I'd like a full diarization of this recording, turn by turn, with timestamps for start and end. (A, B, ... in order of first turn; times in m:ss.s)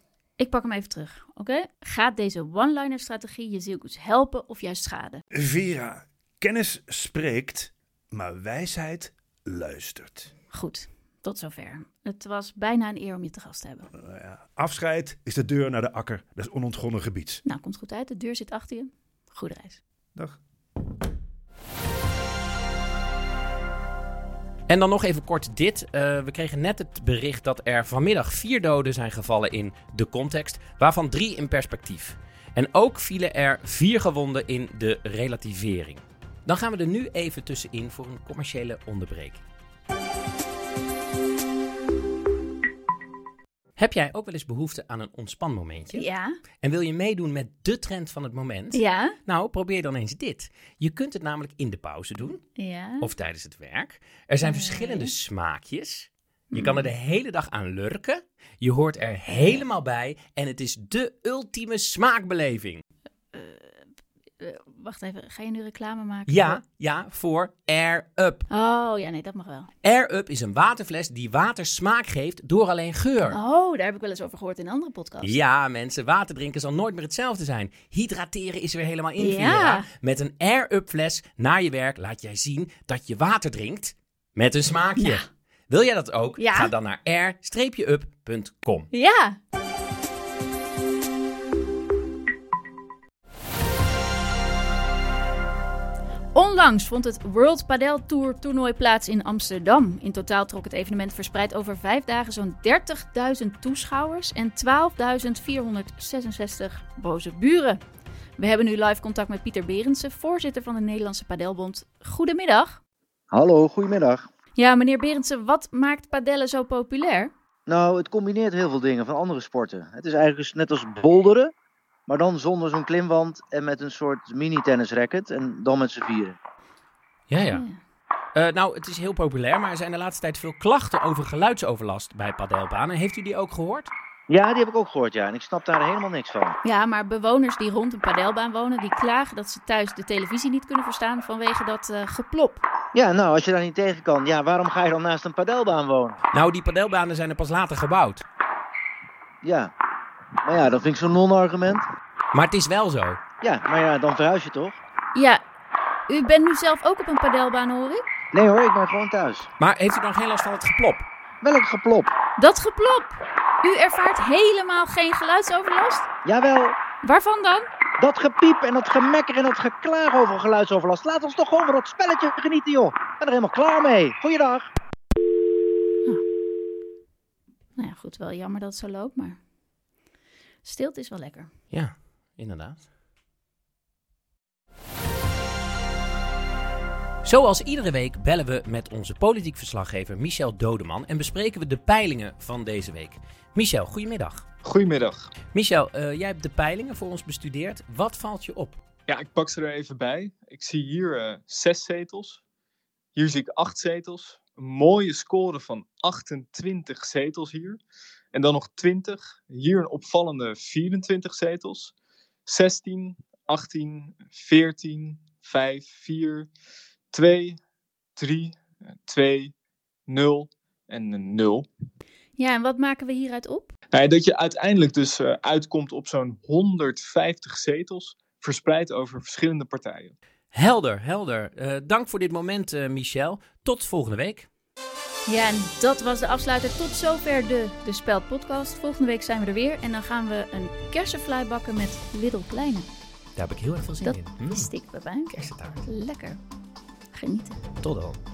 0:00.4-0:05.2 A
0:05.3-0:10.3 B
0:10.5-0:13.9 A
0:14.0-0:17.4 B
0:17.4-0:19.8 A
0:24.7-0:39.4 C
0:43.8-0:46.1 C
0:45.9-0:46.3 A
0:46.6-0:52.5 C
0:48.7-0:49.2 A
0:52.6-0:53.1 A
0:53.0-1:02.8 C
0:54.4-0:55.1 A
0:56.5-0:56.9 A
1:03.3-1:03.8 A
1:04.4-1:06.6 A
1:06.3-1:08.5 C
1:08.5-1:09.7 A
1:09.8-1:13.4 C
1:13.3-1:15.4 A
1:15.2-1:28.9 C
1:19.2-1:19.9 A
1:26.4-1:26.7 A
1:28.9-1:29.4 A
1:36.3-1:47.8 A
1:48.4-1:52.8 A
1:53.3-1:54.3 D
1:54.6-1:57.3 A
1:57.7-2:01.5 D
2:02.1-2:06.4 D
2:07.3-2:07.6 C
2:07.5-2:07.8 A
2:08.3-2:13.9 C
2:14.3-2:16.6 D
2:16.6-2:22.6 A
2:22.9-2:26.2 D
2:26.3-2:28.2 C
2:29.4-2:29.7 D
2:30.4-2:31.9 D
2:32.3-2:33.2 C
2:33.4-2:34.8 D
2:35.1-2:35.4 A
2:36.1-2:38.0 A
2:38.3-2:39.5 D
2:39.6-2:41.1 C
2:41.4-2:42.1 D
2:42.4-2:46.1 A
2:46.2-2:46.8 D
2:47.0-2:47.7 A
2:48.0-2:54.7 D
2:57.8-2:59.4 A
3:00.6-3:01.5 A
3:01.7-3:02.8 C
3:07.2-3:14.4 C
3:14.6-3:15.3 E
3:15.5-3:18.8 C
3:19.1-3:22.4 E
3:23.2-3:27.8 E
3:28.3-3:31.9 E
3:32.5-3:36.5 E
3:37.1-3:37.6 E
3:38.2-3:39.5 E
3:40.1-3:41.7 E
3:42.4-3:43.7 A
3:43.9-3:50.2 E
3:50.5-3:54.5 C
3:55.3-4:02.9 A
4:03.4-4:04.7 C
4:04.0-4:05.3 A
4:05.3-4:05.8 C
4:05.9-4:06.4 A
4:07.1-4:07.6 A
4:07.8-4:08.2 C